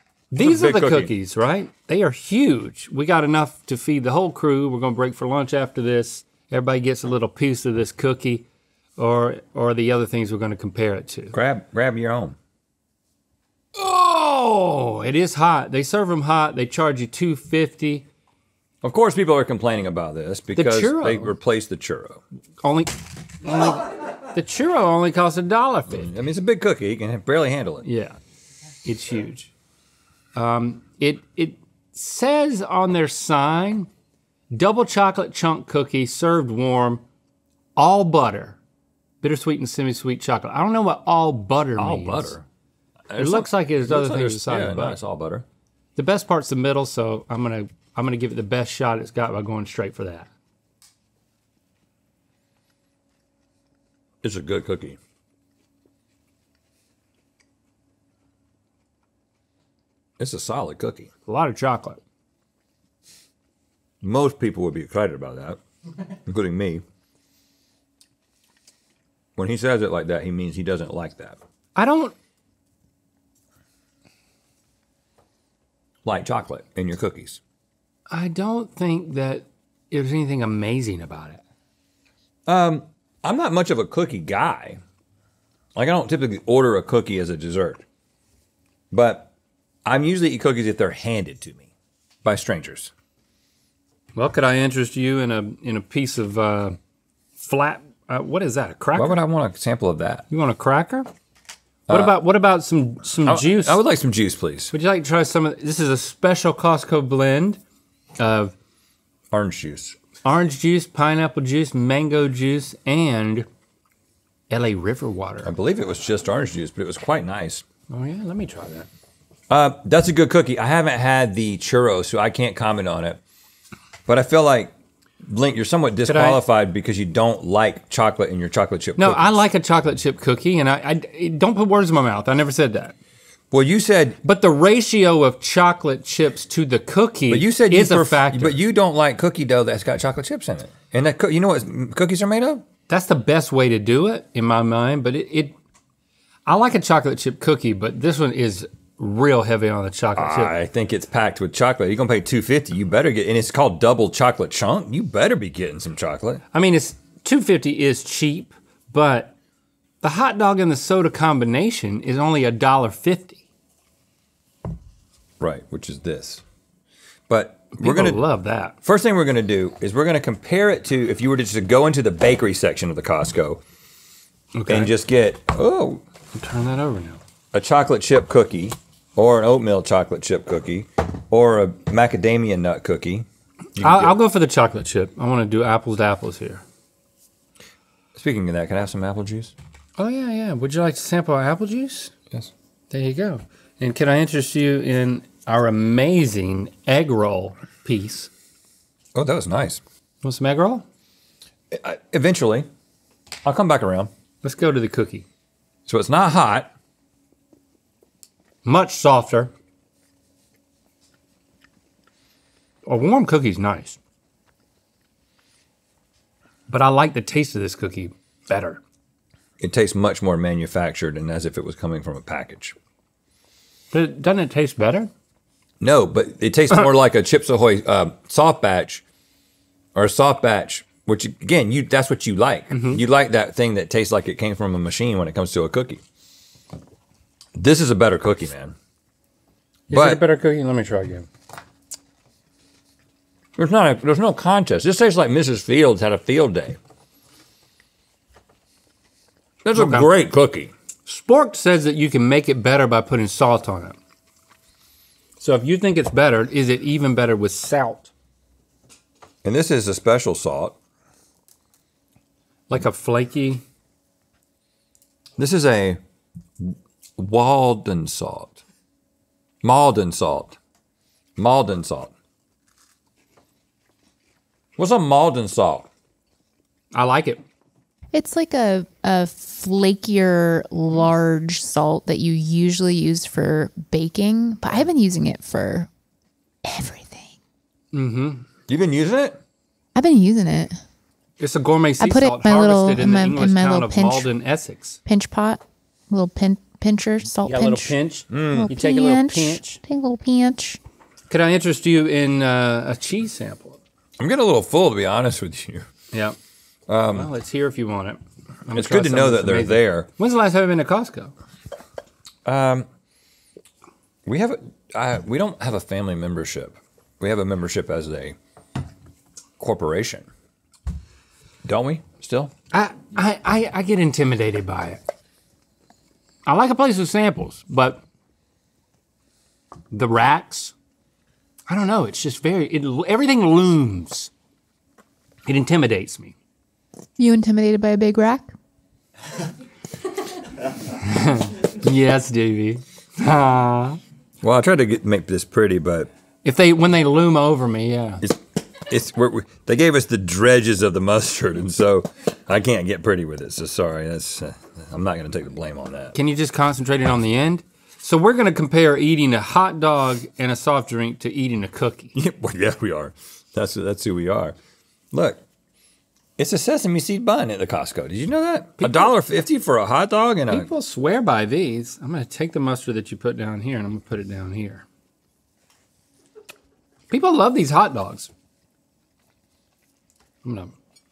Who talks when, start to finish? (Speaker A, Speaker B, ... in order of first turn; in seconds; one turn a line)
Speaker A: 0.3-8.5
Speaker B: 0.4-1.1
Speaker A: 9.0-11.3
Speaker B: 11.3-12.4
Speaker A: 13.8-18.1
Speaker B: 18.8-22.2
Speaker A: 20.6-21.4
Speaker A: 22.6-26.2
Speaker B: 25.9-27.9
Speaker A: 27.8-28.2
Speaker A: 28.9-29.5
Speaker A: 30.4-33.9
Speaker A: 34.5-37.0
Speaker A: 37.8-38.6
Speaker A: 39.2-42.4
Speaker B: 41.8-42.5
Speaker B: 43.1-45.5
Speaker A: 43.1-45.0
Speaker A: 46.0-50.3
Speaker B: 54.2-55.0
Speaker B: 60.2-61.1
Speaker A: 61.3-62.0
Speaker B: 64.0-65.6
Speaker B: 66.3-66.8
Speaker B: 69.4-71.4
Speaker A: 71.8-72.2
Speaker B: 76.0-77.4
Speaker A: 78.1-81.4
Speaker B: 82.5-84.8
Speaker B: 85.8-87.8
Speaker B: 88.9-89.3
Speaker B: 89.9-91.7
Speaker B: 92.2-92.9
Speaker A: 94.2-96.8
Speaker A: 97.4-99.2
Speaker B: 99.0-100.2
Speaker A: 100.3-101.1
Speaker B: 101.9-102.2
Speaker A: 101.9-103.8
Speaker B: 103.2-104.7
Speaker A: 104.7-107.6
Speaker A: 108.2-108.5
Speaker B: 109.3-110.0
Speaker A: 110.2-113.5
Speaker A: 114.5-115.5
Speaker B: 115.4-117.6
Speaker A: 117.9-118.9
Speaker B: 119.5-123.2
Speaker B: 124.1-124.7
Speaker B: 125.2-129.3
Speaker A: 126.1-126.4
Speaker A: 129.0-133.0
Speaker B: 133.5-134.2
Speaker A: 134.2-138.6
Speaker B: 137.3-142.6
Speaker A: 142.9-145.6
Speaker A: 146.5-150.5
Speaker B: 150.2-156.4
Speaker A: 156.5-159.3
Speaker A: 160.0-163.4
Speaker B: 165.4-166.4
Speaker B: 167.3-168.2
Speaker A: 167.8-168.8
Speaker B: 168.8-173.6
Speaker A: 174.5-174.9
Speaker B: 174.7-176.0
Speaker A: 176.3-177.2
Speaker B: 177.5-183.3
Speaker B: 183.8-184.2
Speaker A: 183.8-186.6
Speaker B: 188.2-189.5
Speaker A: 190.0-192.1
Speaker A: 192.9-198.3
Speaker B: 199.2-199.8
Speaker A: 200.2-200.8
Speaker B: 201.7-202.7
Speaker B: 203.4-204.1
Speaker A: 204.4-205.3
Speaker B: 205.9-206.7
Speaker A: 208.7-209.5
Speaker A: 212.9-214.0
Speaker A: 216.7-218.8
Speaker B: 219.6-222.8
Speaker A: 223.9-225.1
Speaker B: 225.8-229.1
Speaker B: 229.9-236.0
Speaker A: 232.7-233.0
Speaker B: 237.6-238.8
Speaker A: 239.9-241.3
Speaker B: 239.9-240.2
Speaker B: 243.6-246.8
Speaker B: 249.7-250.7
Speaker A: 249.8-250.1
Speaker A: 251.1-254.0
Speaker A: 255.4-258.1
Speaker B: 259.4-260.8
Speaker A: 262.7-263.6
Speaker B: 265.4-266.0
Speaker B: 266.6-268.6
Speaker B: 269.6-270.6
Speaker B: 271.4-272.1
Speaker B: 274.8-275.9
Speaker A: 276.9-277.4
Speaker C: 278.1-285.9
Speaker C: 286.6-287.3
Speaker A: 287.9-288.4
Speaker B: 288.7-289.4
Speaker C: 289.9-290.8
Speaker A: 291.4-295.0
Speaker C: 292.0-294.3
Speaker C: 295.1-298.0
Speaker A: 297.4-299.6
Speaker B: 298.3-298.7
Speaker C: 298.5-300.8
Speaker A: 301.3-303.8
Speaker B: 304.2-305.9
Speaker A: 306.1-306.4
Speaker B: 306.9-307.3
Speaker A: 307.1-311.3
Speaker B: 308.7-310.1
Speaker B: 312.4-312.9
Speaker B: 314.3-318.4
Speaker B: 319.6-320.3
Speaker B: 321.7-322.5
Speaker A: 322.7-325.0
Speaker A: 326.5-328.0
Speaker A: 329.9-330.8
Speaker A: 331.7-334.3
Speaker A: 335.5-336.4
Speaker C: 337.2-338.5
Speaker A: 341.0-344.0
Speaker B: 344.4-346.1
Speaker A: 346.4-348.2
Speaker B: 348.2-356.1
Speaker A: 356.1-362.1
Speaker B: 362.1-364.6
Speaker B: 365.1-365.4
Speaker B: 366.4-370.7
Speaker A: 368.8-369.1
Speaker A: 370.5-374.9
Speaker A: 377.1-378.3
Speaker A: 380.4-380.7